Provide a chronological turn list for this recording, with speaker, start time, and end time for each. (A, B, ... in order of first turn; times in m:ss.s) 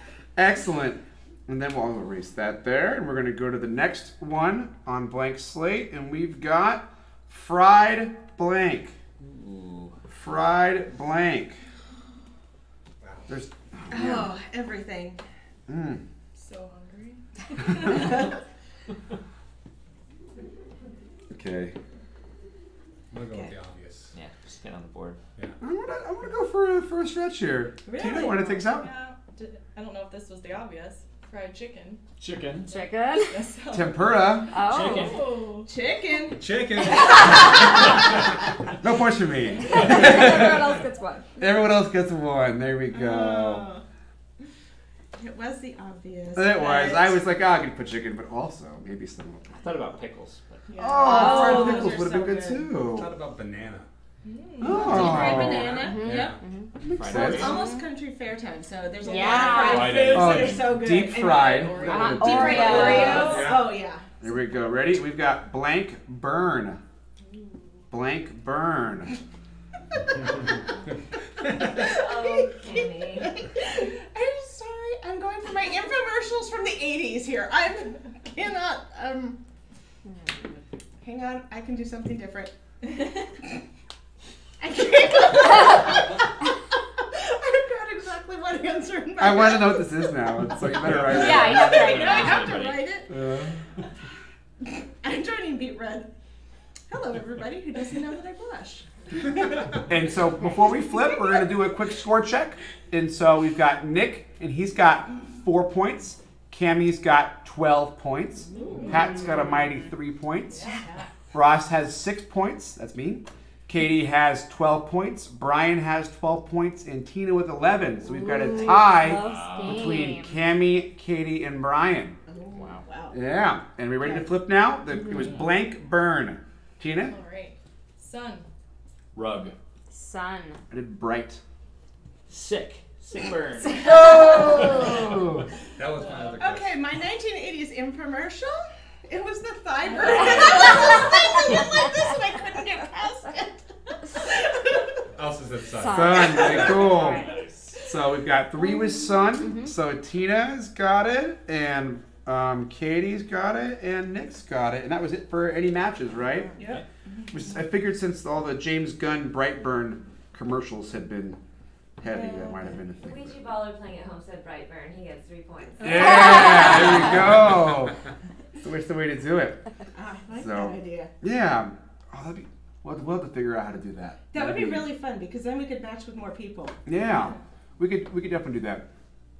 0:00.4-0:08.9 A
0:09.2-0:10.0 B
0:10.1-0:11.6 A
0:13.0-0:13.3 C
0:13.3-0:14.3 A
0:13.9-0:15.2 D
0:15.7-0:16.0 A
0:16.3-0:18.1 E
0:21.3-0:21.7 A
0:23.1-0:24.1 C
0:23.2-0:23.6 D
0:24.1-0:25.2 B
0:25.6-0:28.9 A
0:27.8-0:28.4 D
0:28.0-0:32.0 E
0:32.2-0:32.7 F
0:32.6-0:33.4 G
0:33.1-0:35.7 E
0:33.7-0:34.5 A
0:34.5-0:35.2 G
0:34.7-0:35.2 B
0:35.6-0:38.1 D
0:36.3-0:37.9 C
0:38.8-0:40.7 A
0:39.6-0:41.6 G
0:41.4-0:43.7 A
0:42.9-0:43.8 D
0:45.2-0:47.2 D
0:46.3-0:49.5 A
0:49.6-0:50.6 B
0:50.7-0:51.6 E
0:50.8-0:52.8 D
0:50.8-0:53.1 A
0:51.0-0:51.9 G
0:52.8-0:53.9 C
0:54.2-0:55.7 E
0:54.6-0:55.8 A
0:54.6-0:56.4 D
0:54.8-0:56.7 G
0:54.9-0:56.4 C
0:56.8-0:57.6 A
0:56.9-0:57.6 B
0:57.0-1:04.0 D
0:57.4-0:57.9 G
0:59.0-1:00.1 G
0:59.0-0:59.8 E
0:59.5-1:00.9 F
1:00.1-1:03.4 A
1:01.1-1:03.5 E
1:01.8-1:03.5 G
1:02.7-1:03.8 C
1:04.2-1:06.8 A
1:07.9-1:09.1 A
1:11.4-1:19.4 D
1:11.6-1:13.4 H
1:20.1-1:20.4 G
1:21.0-1:22.9 D
1:24.6-1:26.3 D
1:27.0-1:33.1 D
1:29.2-1:31.6 A
1:31.0-1:32.5 G
1:31.2-1:32.9 B
1:33.1-1:33.5 A
1:34.6-1:36.1 D
1:36.9-1:39.6 D
1:39.9-1:50.6 A
1:40.6-1:41.5 D
1:48.6-1:48.9 D
1:48.6-1:49.1 E
1:48.8-1:49.8 G
1:50.5-1:51.1 E
1:51.3-2:02.2 A
1:58.0-2:00.4 G
1:59.1-2:00.0 F
2:02.3-2:03.2 D
2:02.5-2:02.8 B
2:03.1-2:07.1 A
2:05.0-2:05.3 G
2:05.1-2:05.5 F
2:07.0-2:08.5 E
2:09.1-2:09.5 F
2:09.9-2:10.6 G
2:10.7-2:11.4 A
2:12.3-2:14.0 B
2:13.7-2:15.0 G
2:13.8-2:15.4 A
2:15.8-2:16.8 C
2:16.0-2:16.3 E
2:16.4-2:24.8 D
2:19.8-2:20.6 E
2:20.0-2:21.8 F
2:25.1-2:26.8 C
2:25.7-2:27.3 G
2:25.9-2:27.3 A
2:26.5-2:27.8 F
2:27.8-2:36.5 A
2:29.3-2:29.7 G
2:36.6-2:37.4 D
2:37.3-2:41.4 A
2:42.0-2:43.4 A
2:42.0-2:42.8 D
2:43.0-2:47.1 H
2:45.8-2:48.0 A
2:45.9-2:47.1 G
2:48.6-2:49.6 A
2:49.9-2:51.1 D
2:50.4-2:54.9 A
2:54.3-2:56.8 D
2:56.8-2:58.8 A